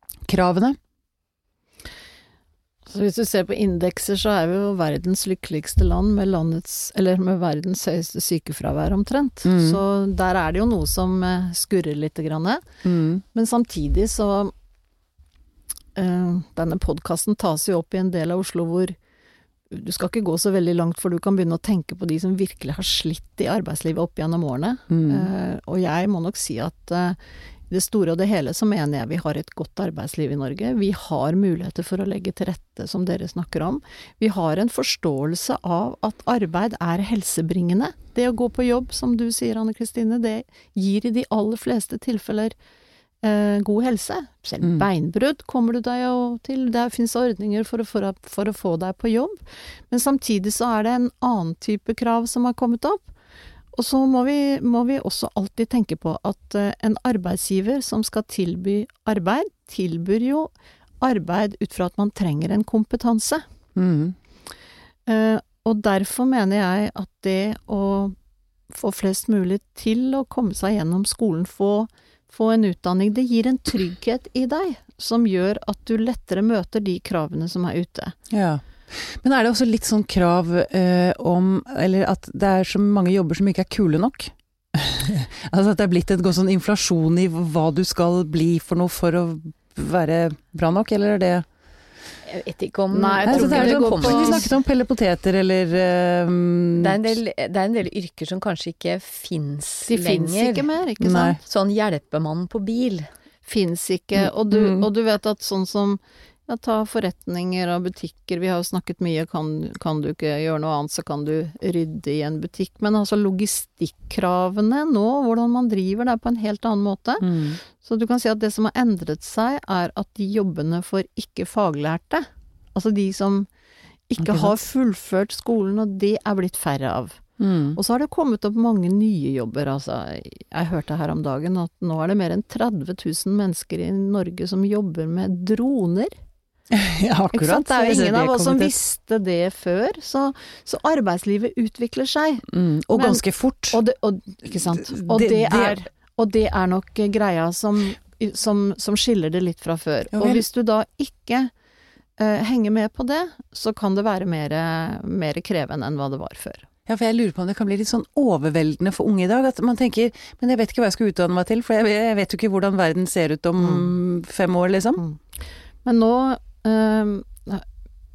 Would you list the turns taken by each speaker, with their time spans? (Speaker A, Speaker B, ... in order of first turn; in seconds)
Speaker A: 0.3-0.8, 9.4-9.8, 12.8-13.2, 24.9-25.3, 63.8-64.2, 78.3-91.5, 93.3-97.0, 101.0-101.4, 104.5-104.8, 117.2-117.6, 124.2-124.5, 127.4-127.8, 136.7-138.8, 142.5-143.8, 144.9-145.8, 150.1-150.4, 156.9-165.0
Speaker B: 2.9-12.7, 13.3-14.5, 15.9-19.0, 19.7-27.2, 27.7-42.5, 43.2-53.1, 53.7-63.5, 65.1-68.2, 68.7-78.2, 92.9-94.5, 99.9-101.4, 103.5-123.5, 124.1-127.2, 127.8-136.2, 137.3-151.5, 152.2-156.7, 163.6-163.9, 165.8-167.7
Speaker C: 92.3-94.5, 96.8-100.7, 101.4-103.1